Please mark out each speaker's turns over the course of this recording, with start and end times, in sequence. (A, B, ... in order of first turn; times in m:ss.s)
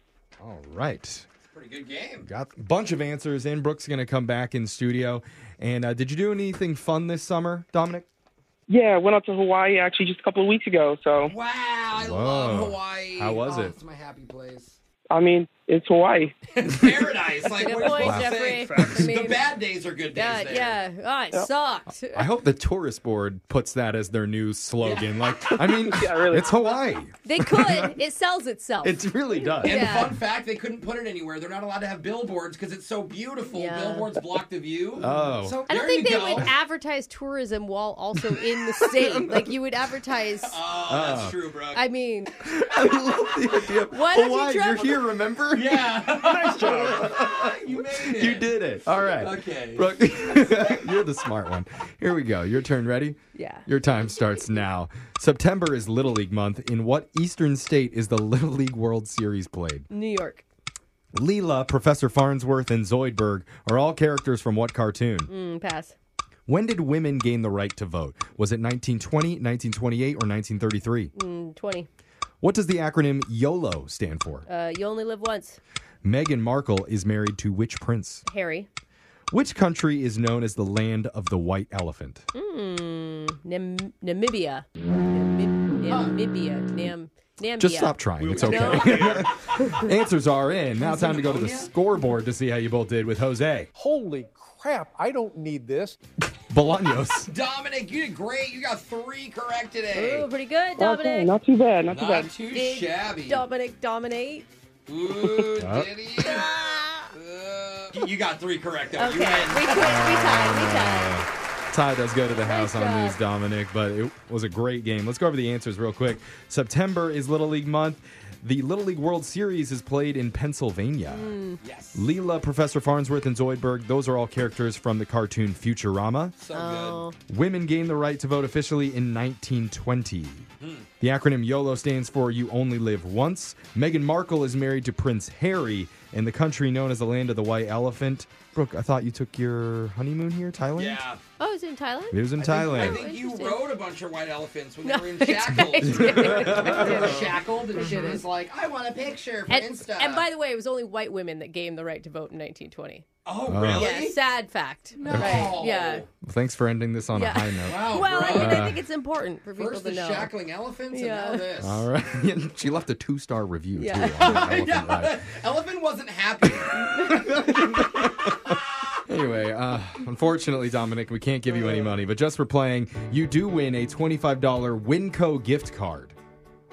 0:00.4-0:01.3 A
0:01.5-0:02.3 B
0:02.2-0:08.1 A
0:08.7-0:11.3 C
0:11.2-0:14.8 B
0:11.9-0:13.8 A
0:15.1-0:16.4 C
0:16.5-0:20.8 B
0:17.6-0:19.5 D
0:17.9-0:18.3 A
0:20.1-0:22.3 D
0:22.1-0:28.0 A
0:24.8-0:25.3 B
0:25.3-0:26.6 C
0:27.2-0:29.1 D
0:28.8-0:30.1 A
0:29.6-0:36.5 B
0:29.6-0:30.1 D
0:33.5-0:34.1 D
0:35.0-0:35.7 A
0:35.7-0:40.6 D
0:38.9-0:39.4 A
0:40.4-0:41.8 B
0:40.9-0:41.4 A
0:41.7-0:42.4 D
0:42.4-0:59.9 A
0:43.9-0:45.0 D
0:45.5-0:48.5 B
0:46.2-0:47.1 E
0:49.1-0:49.9 B
0:53.3-0:53.7 D
0:59.9-1:00.4 D
1:01.1-1:05.3 A
1:05.3-1:06.0 D
1:06.5-1:11.1 A
1:11.2-1:11.9 D
1:12.4-1:14.5 A
1:14.5-1:15.6 D
1:16.0-1:18.2 A
1:18.3-1:18.7 D
1:19.3-1:22.3 A
1:22.3-1:29.7 D
1:25.9-1:26.1 B
1:27.6-1:33.7 A
1:28.2-1:29.3 B
1:30.8-1:31.7 B
1:33.8-1:36.0 E
1:36.5-1:37.3 A
1:37.3-1:40.3 B
1:39.9-1:41.3 D
1:40.8-1:42.3 C
1:41.9-1:43.4 B
1:42.5-1:44.5 D
1:44.9-1:49.9 B
1:45.6-1:45.9 A
1:46.2-1:47.0 D
1:49.0-1:51.2 D
1:49.8-2:01.4 A
1:52.3-1:53.2 D
2:01.1-2:01.6 D
2:01.6-2:02.1 B
2:02.0-2:06.4 A
2:06.4-2:07.0 B
2:06.5-2:07.2 D
2:07.3-2:10.5 A
2:10.6-2:10.9 B
2:11.0-2:21.0 A
2:20.8-2:21.2 B
2:21.4-2:23.7 D
2:22.1-2:23.0 A
2:22.4-2:30.3 B
2:24.8-2:28.2 D
2:25.8-2:27.2 A
2:29.5-2:33.0 D
2:33.3-2:34.2 B
2:33.5-2:34.0 A
2:33.8-2:36.1 D
2:35.0-2:36.1 B
2:35.1-2:35.6 A
2:36.2-2:38.8 A
2:37.1-2:40.3 D
2:37.6-2:38.8 B
2:39.5-2:41.9 B
2:40.9-2:41.4 D
2:41.6-2:45.3 A
2:43.8-2:44.4 D
2:44.2-2:46.8 B
2:46.4-2:56.2 A
2:46.7-2:47.5 D